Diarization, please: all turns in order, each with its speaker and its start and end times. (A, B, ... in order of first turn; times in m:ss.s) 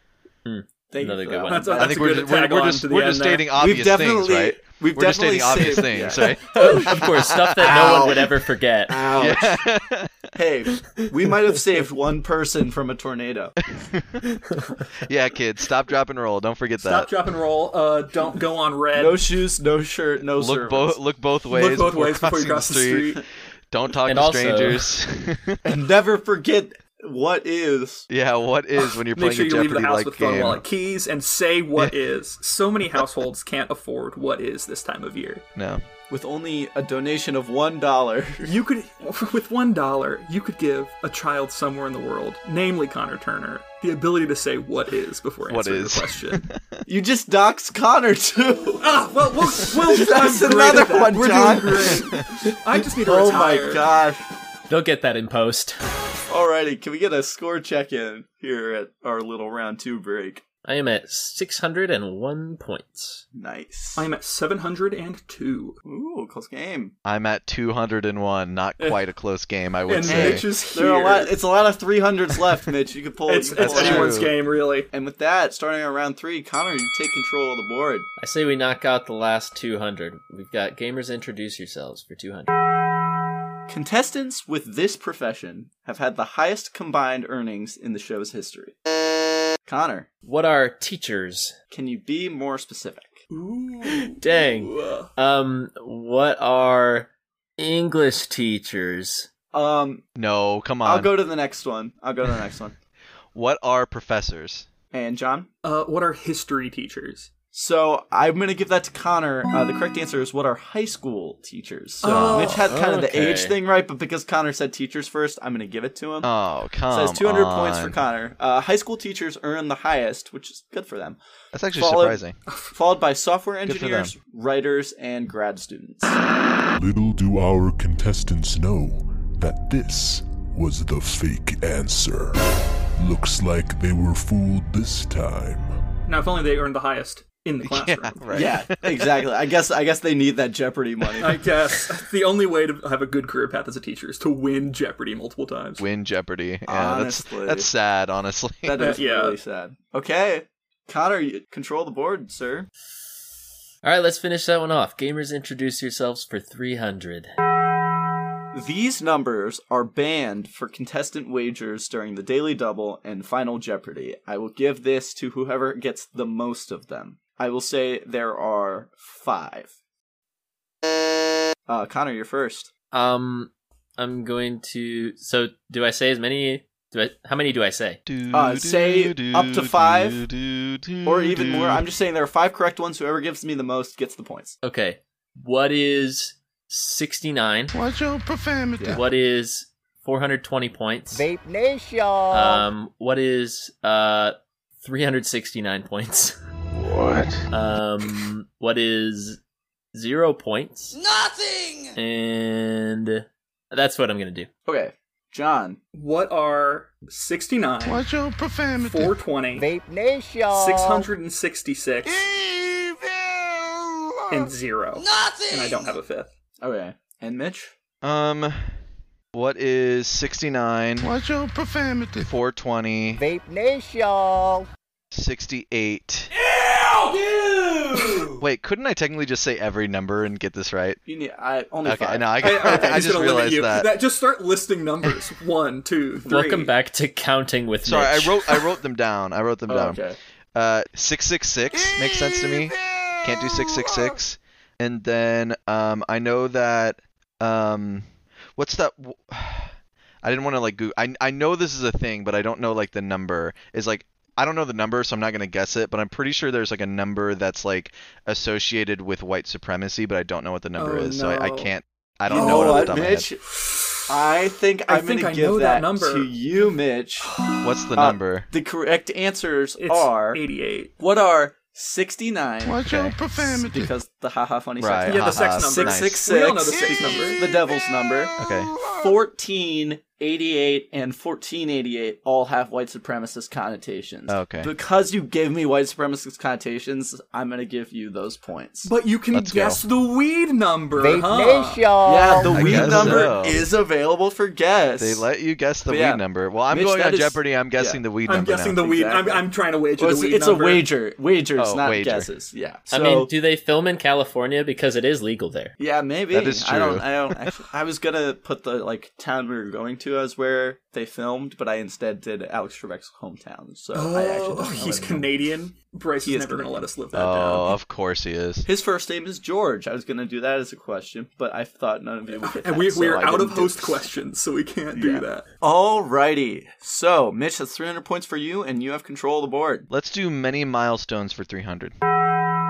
0:00.4-0:01.8 A
0:00.9-0:02.1 B
0:01.5-0:03.5 C
0:01.7-0:08.1 D
0:03.6-0:09.7 B
0:06.5-0:09.1 A
0:09.1-0:10.2 D
0:10.4-0:13.5 B
0:13.7-0:14.3 D
0:14.5-0:14.9 A
0:15.1-0:17.1 D
0:16.8-0:19.3 C
0:18.9-0:21.0 B
0:20.4-0:25.6 D
0:21.5-0:23.2 C
0:24.0-0:24.9 A
0:25.6-0:28.1 B
0:28.1-0:30.6 D
0:29.1-0:35.4 C
0:35.6-0:35.8 D
0:36.1-0:38.5 B
0:38.4-0:46.4 C
0:45.4-0:46.6 D
0:46.9-0:48.9 B
0:48.8-0:53.9 C
0:49.6-0:52.1 B
0:53.0-0:54.2 B
0:54.7-0:55.8 A
0:56.3-1:00.4 B
1:00.6-1:03.2 A
1:03.4-1:04.1 B
1:03.9-1:05.8 C
1:05.8-1:06.9 B
1:07.0-1:10.5 D
1:09.9-1:11.4 C
1:10.0-1:14.3 B
1:13.3-1:14.9 C
1:13.6-1:14.3 D
1:14.9-1:18.1 B
1:18.2-1:22.6 A
1:23.7-1:28.8 B
1:29.6-1:30.1 B
1:30.2-1:31.5 A
1:31.7-1:33.2 B
1:33.3-1:35.1 C
1:33.9-1:39.3 A
1:39.5-1:40.0 B
1:40.2-1:41.1 D
1:40.8-1:42.7 B
1:43.3-1:44.7 D
1:44.9-1:45.5 B
1:45.6-1:47.3 C
1:47.5-1:56.3 B
1:52.0-1:52.7 C
1:52.0-1:53.6 A
1:56.2-1:58.0 D
1:56.9-2:01.2 B
2:01.5-2:02.4 D
2:01.7-2:06.2 B
2:03.6-2:04.1 D
2:06.8-2:12.4 E
2:13.0-2:15.8 E
2:16.1-2:18.5 C
2:17.6-2:19.3 D
2:18.3-2:21.4 B
2:21.2-2:25.8 C
2:25.8-2:28.9 D
2:26.7-2:27.7 B
2:28.6-2:32.7 B
2:28.8-2:29.4 C
2:33.8-2:37.3 A
2:38.5-2:49.7 B
2:51.7-2:52.7 B
2:52.9-2:58.0 A
2:58.1-3:01.8 D
2:58.3-3:00.2 B
3:01.0-3:04.5 B
3:04.6-3:07.8 A
3:07.7-3:09.0 F
3:08.8-3:11.2 A
3:11.1-3:12.6 G
3:12.3-3:16.4 A
3:16.9-3:17.4 F
3:17.5-3:19.4 A
3:19.9-3:21.0 A
3:20.9-3:22.0 G
3:22.0-3:24.5 A
3:24.6-3:25.8 B
3:25.9-3:28.1 C
3:27.8-3:29.2 F
3:28.8-3:29.7 C
3:29.6-3:31.1 G
3:30.5-3:32.2 C
3:32.1-3:33.1 F
3:34.3-3:36.3 C
3:35.0-3:36.0 G
3:36.6-3:37.7 B
3:38.0-3:38.7 D
3:39.3-3:41.1 D
3:41.0-3:42.3 F
3:42.2-3:43.2 D
3:43.2-3:44.6 G
3:45.1-3:46.3 D
3:46.4-3:48.4 G
3:48.4-3:51.0 D
3:51.1-3:53.0 B
3:51.8-3:53.9 D
3:52.4-3:56.7 C
3:56.2-3:58.6 A
3:57.8-4:00.0 D
3:59.7-4:00.2 B
4:00.5-4:23.3 D
4:01.8-4:04.2 F
4:20.8-4:21.7 C
4:22.3-4:23.4 B
4:22.3-4:23.0 C
4:24.1-4:27.3 B
4:24.9-4:26.3 C
4:27.2-4:27.7 C
4:27.6-4:28.5 D
4:28.0-4:30.4 B
4:29.8-4:30.9 C
4:31.0-4:32.8 B
4:32.6-4:33.9 F
4:32.8-4:33.2 D
4:33.4-4:38.4 B
4:34.8-4:36.2 D
4:35.1-4:37.4 C
4:36.9-4:37.3 F
4:38.4-4:38.7 D
4:38.8-4:39.1 F
4:38.9-4:48.9 B
4:44.3-4:44.7 D
4:48.8-4:51.9 C
4:49.3-4:49.8 D
4:51.0-4:53.2 G
4:52.0-4:55.3 B
4:52.5-4:53.6 D
4:52.6-4:53.3 C
4:55.0-4:58.8 D
4:55.9-4:58.0 B
4:58.2-5:00.9 C
4:58.8-4:59.4 B
5:00.0-5:03.3 B
5:01.6-5:02.3 D
5:02.9-5:05.7 A
5:05.8-5:15.3 B
5:06.3-5:07.4 D
5:13.9-5:17.7 C
5:16.2-5:16.9 B
5:17.1-5:18.7 D
5:18.6-5:24.0 B
5:22.4-5:25.4 C
5:25.0-5:29.9 B
5:29.9-5:31.9 D